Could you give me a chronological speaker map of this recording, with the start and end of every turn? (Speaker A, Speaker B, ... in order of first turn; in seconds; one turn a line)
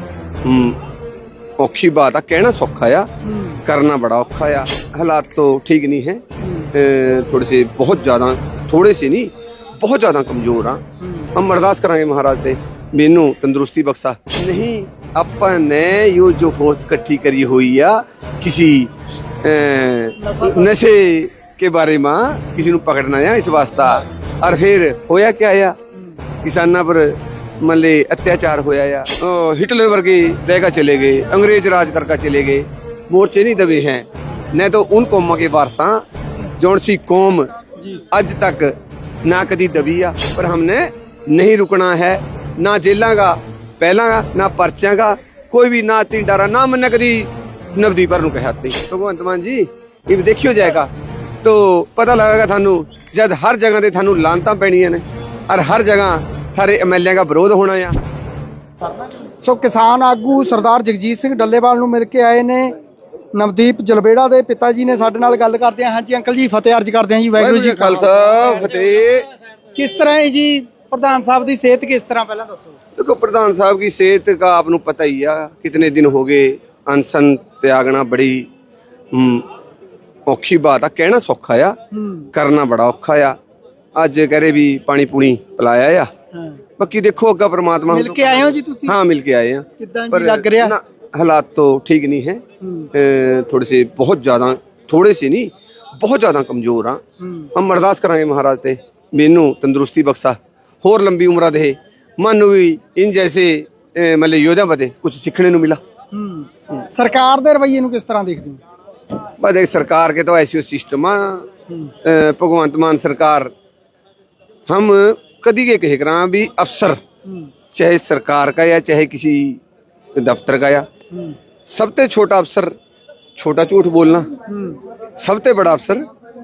Speaker A: 0.5-0.8
Speaker A: 1.6-3.1
Speaker B: 3.2-3.6
Speaker A: 3.6-10.8
Speaker B: 6.4-6.7
Speaker B: 11.0-11.3
Speaker A: 11.3-18.9
Speaker A: 19.4-25.8
Speaker B: 20.2-20.7
Speaker A: 26.4-36.0
Speaker A: 36.6-37.5
Speaker A: 38.1-50.9
Speaker A: 51.4-58.0
Speaker B: 58.8-62.7
Speaker B: 63.4-68.2
Speaker A: 67.4-69.3
Speaker B: 69.8-72.8
Speaker A: 73.0-78.5
Speaker A: 79.1-79.5
Speaker A: 80.3-81.8
Speaker B: 81.9-82.3
Speaker A: 82.3-83.4
Speaker A: 84.0-86.1
Speaker B: 86.3-86.6
Speaker A: 86.8-97.0
Speaker B: 87.9-89.0
Speaker B: 89.8-90.8
Speaker B: 92.6-92.9
Speaker B: 97.2-97.5
Speaker A: 97.5-105.8
Speaker B: 106.1-108.6
Speaker A: 109.4-111.5
Speaker A: 112.0-113.5
Speaker A: 114.7-117.0
Speaker A: 117.7-119.6
Speaker A: 120.2-120.9
Speaker A: 121.7-122.7
Speaker A: 123.4-124.3
Speaker B: 124.5-124.8
Speaker A: 125.2-126.0